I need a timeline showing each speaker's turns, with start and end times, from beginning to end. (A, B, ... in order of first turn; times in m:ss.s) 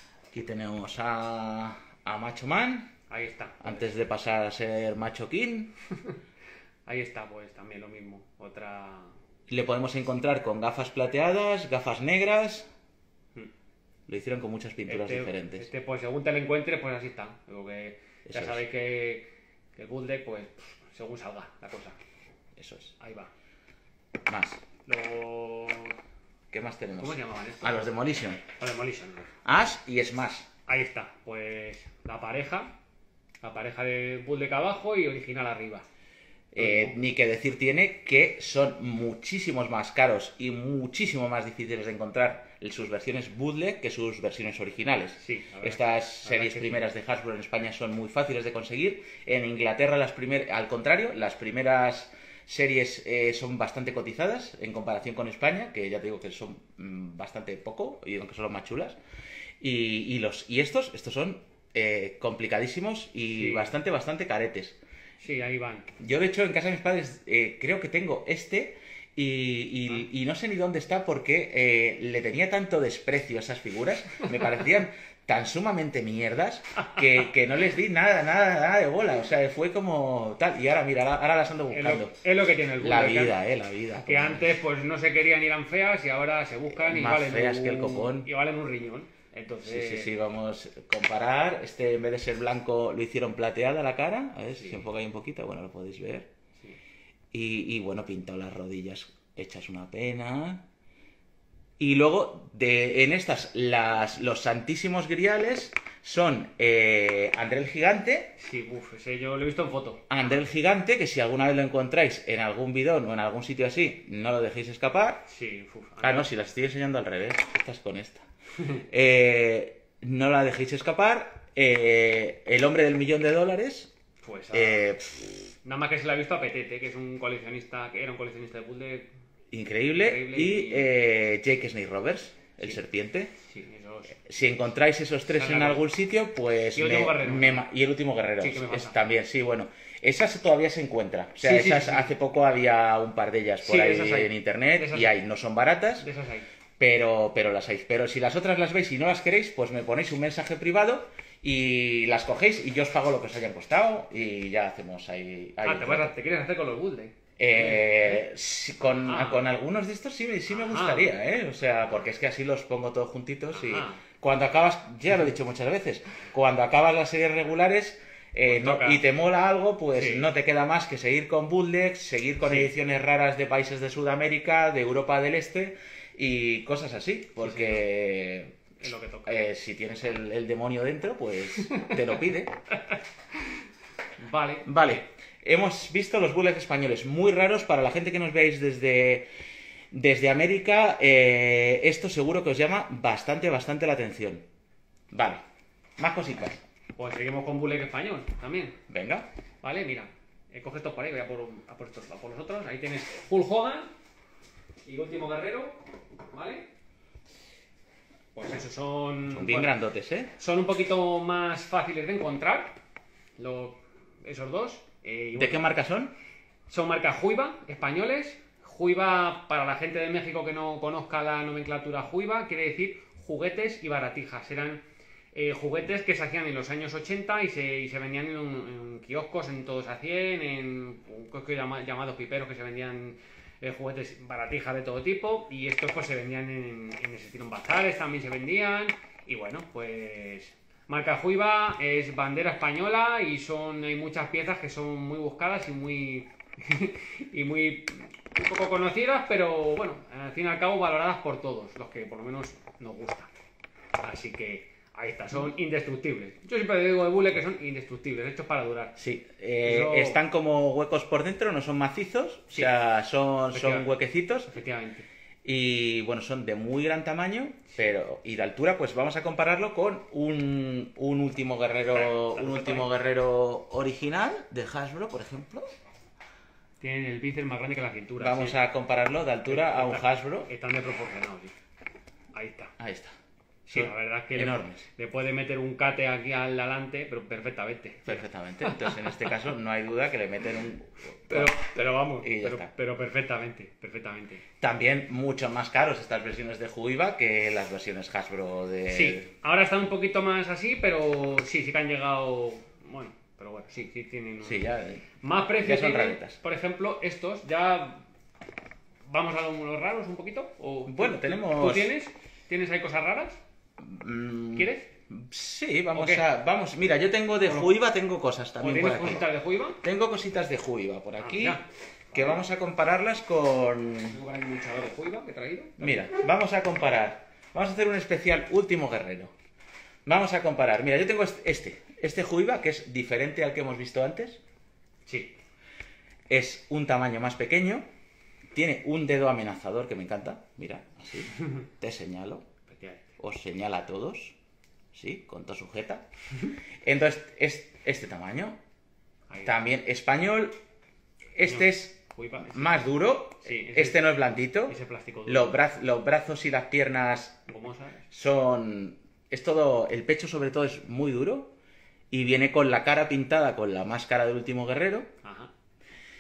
0:00.3-0:02.9 A
0:03.1-0:03.6 B
0:03.6-0:05.7 A
0:06.9-0:09.1 B
0:09.5-0:12.7 A
0:14.1-0:15.7 A
0:14.9-0:22.0 B
0:18.3-0:18.6 A
0:22.6-0:22.9 A
0:23.0-0:23.3 B
0:24.3-0:24.6 A
0:24.9-0:26.0 B
0:26.5-0:28.4 A
0:27.0-0:27.9 B
0:28.5-0:29.4 B
0:29.4-0:30.5 A
0:30.7-0:32.7 B
0:33.4-0:35.8 B
0:36.5-0:59.0 A
0:36.6-0:37.0 B
0:45.2-0:46.8 B
0:59.6-1:04.8 A
1:03.4-1:03.7 B
1:05.2-1:05.9 B
1:06.0-1:22.1 A
1:21.7-1:23.4 B
1:22.8-1:24.6 A
1:24.0-1:30.1 B
1:26.7-1:28.3 A
1:29.6-1:36.3 A
1:34.6-1:34.8 B
1:37.3-1:40.6 A
1:41.8-1:48.3 A
1:48.4-1:50.1 B
1:50.1-1:55.2 A
1:55.3-1:56.3 B
1:56.0-1:58.2 A
1:58.9-2:03.9 A
2:04.2-2:04.9 B
2:04.5-2:05.5 A
2:05.6-2:09.1 B
2:09.5-2:13.3 A
2:09.9-2:10.9 B
2:13.4-2:14.2 B
2:14.1-2:26.1 A
2:15.4-2:15.8 B
2:16.7-2:17.6 B
2:18.4-2:19.0 B
2:21.4-2:22.1 B
2:23.6-2:25.1 B
2:26.0-2:26.5 B
2:26.8-2:36.2 A
2:35.6-2:38.2 B
2:37.4-2:58.6 A
2:39.0-2:39.5 B
2:40.5-2:41.1 B
2:43.5-2:44.0 B
2:48.4-2:49.0 B
2:50.0-2:50.3 B
2:52.5-2:52.7 B
2:57.4-2:57.8 B
2:58.8-2:59.5 B
2:59.3-3:02.5 A
3:02.9-3:03.5 B
3:04.2-3:05.0 B
3:04.6-3:09.3 A
3:09.9-3:14.4 A
3:15.1-3:15.4 A
3:16.0-3:16.6 A
3:17.0-3:18.8 B
3:18.9-3:19.3 A
3:19.6-3:23.9 B
3:24.8-3:26.7 B
3:28.4-3:29.8 B
3:29.3-3:30.3 A
3:30.4-3:32.8 B
3:33.4-3:35.7 B
3:35.4-3:36.1 A
3:36.7-3:44.8 B
3:45.3-4:13.3 B
4:14.0-4:19.0 B
4:19.0-4:24.5 A
4:19.6-4:20.2 B
4:23.5-4:23.9 B
4:24.4-4:25.1 B
4:25.4-4:35.7 A
4:31.9-4:32.9 B
4:36.8-4:38.6 B
4:38.2-4:40.5 A
4:39.5-4:41.5 B
4:42.3-4:42.7 B
4:42.8-4:43.1 A
4:43.7-4:49.1 B
4:43.7-4:44.8 A
4:48.1-4:51.5 A
4:51.3-4:54.4 B
4:52.2-4:52.7 A
4:54.6-4:59.3 A
4:58.9-5:04.7 B
5:04.4-5:05.0 A
5:05.2-5:08.0 B
5:05.6-5:06.4 A
5:09.1-5:13.4 B
5:10.9-5:11.9 A
5:13.8-5:19.3 A
5:14.6-5:14.9 B
5:15.9-5:16.2 B
5:17.5-5:17.7 B
5:18.6-5:19.8 B
5:19.8-5:21.6 A
5:21.2-5:22.4 B
5:22.1-5:24.2 A
5:24.1-5:26.0 B
5:25.8-5:29.3 A
5:30.1-5:34.4 A
5:35.1-5:35.4 B
5:36.3-5:37.8 A
5:38.5-5:42.4 A
5:42.7-5:43.1 B
5:43.2-5:44.4 A
5:44.9-5:46.0 A
5:46.8-5:48.6 A
5:49.4-5:50.6 A
5:51.4-5:57.4 A
5:51.4-5:52.8 B
5:53.4-5:54.1 B
5:54.7-5:55.6 B
5:57.5-5:58.1 B
5:58.1-6:01.6 A
6:02.1-6:05.1 A
6:05.2-6:05.5 B